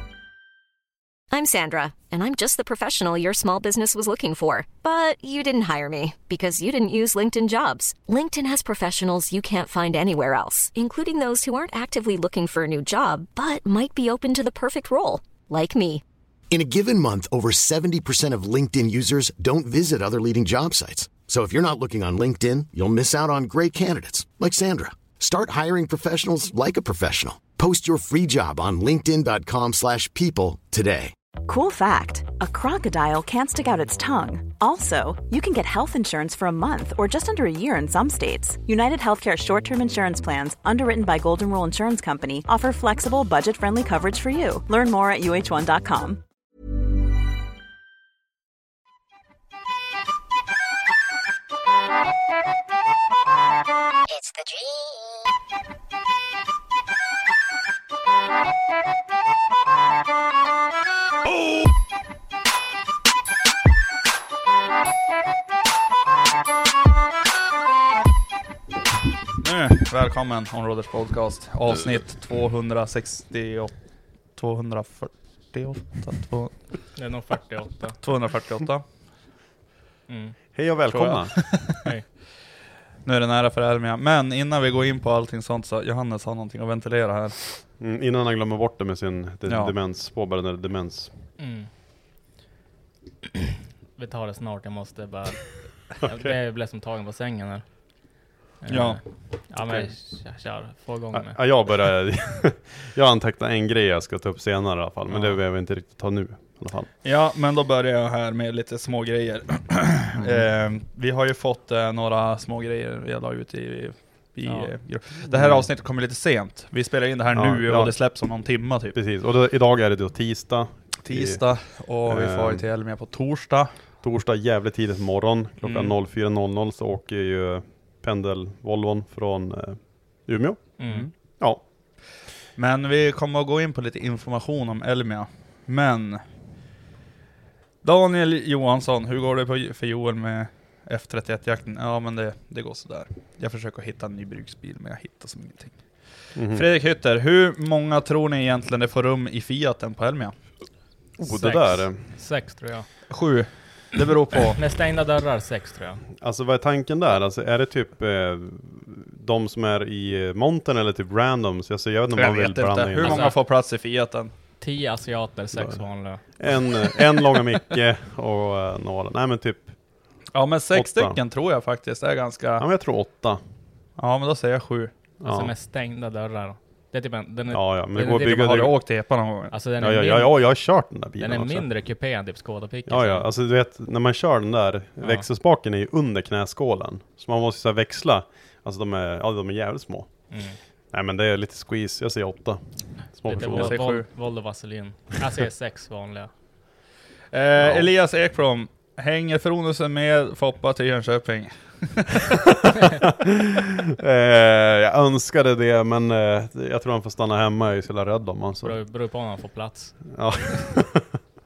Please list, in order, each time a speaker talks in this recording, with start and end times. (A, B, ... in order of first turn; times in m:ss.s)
0:01.3-0:16.0 A
0:16.5-0:31.1 B
0:31.5-0:46.2 C
1:09.4-1:16.9 D
1:16.9-1:18.0 E
1:18.0-1:18.9 D
1:20.1-1:20.4 E
1:20.6-1:21.7 F
1:20.9-1:21.8 D
1:21.8-1:22.1 E
1:23.0-1:27.6 D
1:27.8-1:31.2 F
1:29.5-1:29.8 D
1:31.4-1:31.7 E
1:34.0-1:41.4 E
1:36.0-1:36.4 F
1:38.7-1:39.2 D
1:39.6-1:39.9 F
1:41.1-1:46.9 F
1:47.0-1:59.0 D
1:50.2-1:50.5 F
1:54.4-1:54.7 E
1:55.3-1:55.7 F
1:57.3-1:58.1 F
1:58.9-2:02.7 F
2:01.0-2:03.8 D
2:04.0-2:11.7 F
2:05.6-2:05.9 D
2:10.8-2:11.1 E
2:12.6-2:16.2 D
2:17.8-2:30.4 D
2:26.4-2:26.6 F
2:31.2-2:32.0 F
2:31.2-2:33.2 E
2:33.1-2:34.6 D
2:34.6-2:36.0 E
2:36.2-2:43.3 F
2:42.1-2:44.3 D
2:43.0-2:43.4 E
2:44.6-2:46.6 E
2:45.5-2:51.2 F
2:50.3-2:52.7 D
2:52.6-2:53.4 F
2:54.0-2:54.9 D
2:55.2-2:55.5 F
2:55.2-2:58.5 E
2:57.5-2:58.8 F
2:58.3-2:59.5 D
2:59.5-3:03.3 E
2:59.8-3:01.7 F
3:02.9-3:14.0 F
3:05.0-3:05.3 E
3:10.3-3:10.6 E
3:13.2-3:16.3 E
3:13.4-3:14.1 D
3:17.3-3:22.2 D
3:17.6-3:17.9 F
3:24.0-3:28.8 F
3:28.6-3:30.3 E
3:30.1-3:31.2 F